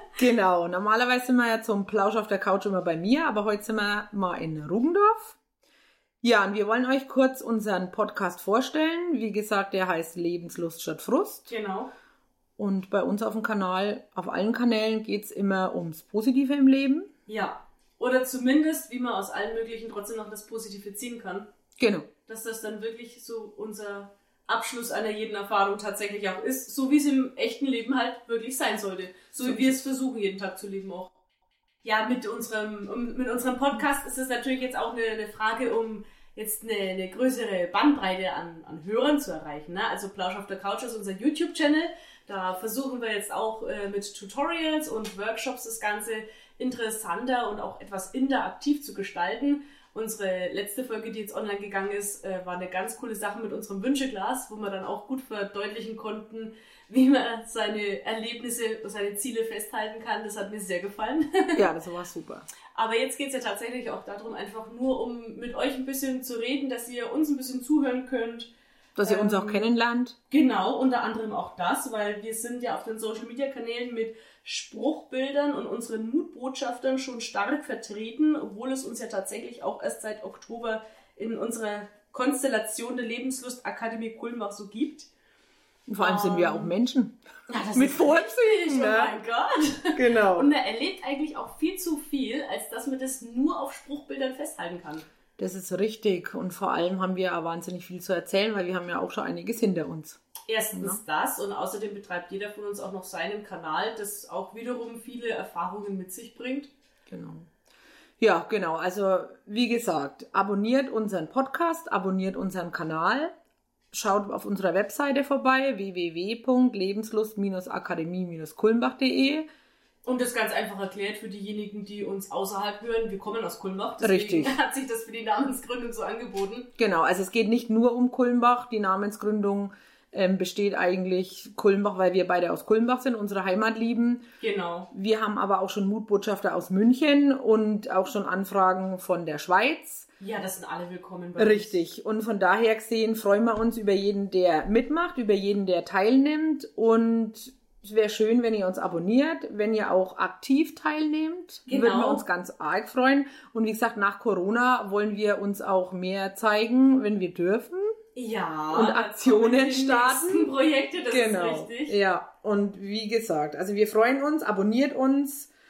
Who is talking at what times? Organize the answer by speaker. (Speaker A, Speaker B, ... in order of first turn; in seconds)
Speaker A: 0.2-5.4, 6.2-11.5, 12.6-17.1, 21.8-22.1, 29.5-29.7, 61.6-62.5, 69.0-70.2, 85.9-87.2, 87.7-89.2, 90.0-90.5, 95.4-100.2, 100.7-101.0, 107.1-107.5, 108.2-113.3, 113.9-119.5, 124.0-124.6, 126.8-134.3, 134.9-140.1, 141.4-157.9, 158.7-160.5, 161.1-165.5
Speaker B: 11.5-11.9, 17.3-21.5, 22.3-31.1, 31.8-61.7, 62.7-68.5, 69.0-69.6, 70.3-85.1, 86.0-86.7, 87.5-95.0, 100.5-106.7, 120.0-126.7, 134.4-134.9, 140.2-141.8, 151.7-152.3, 158.2-162.0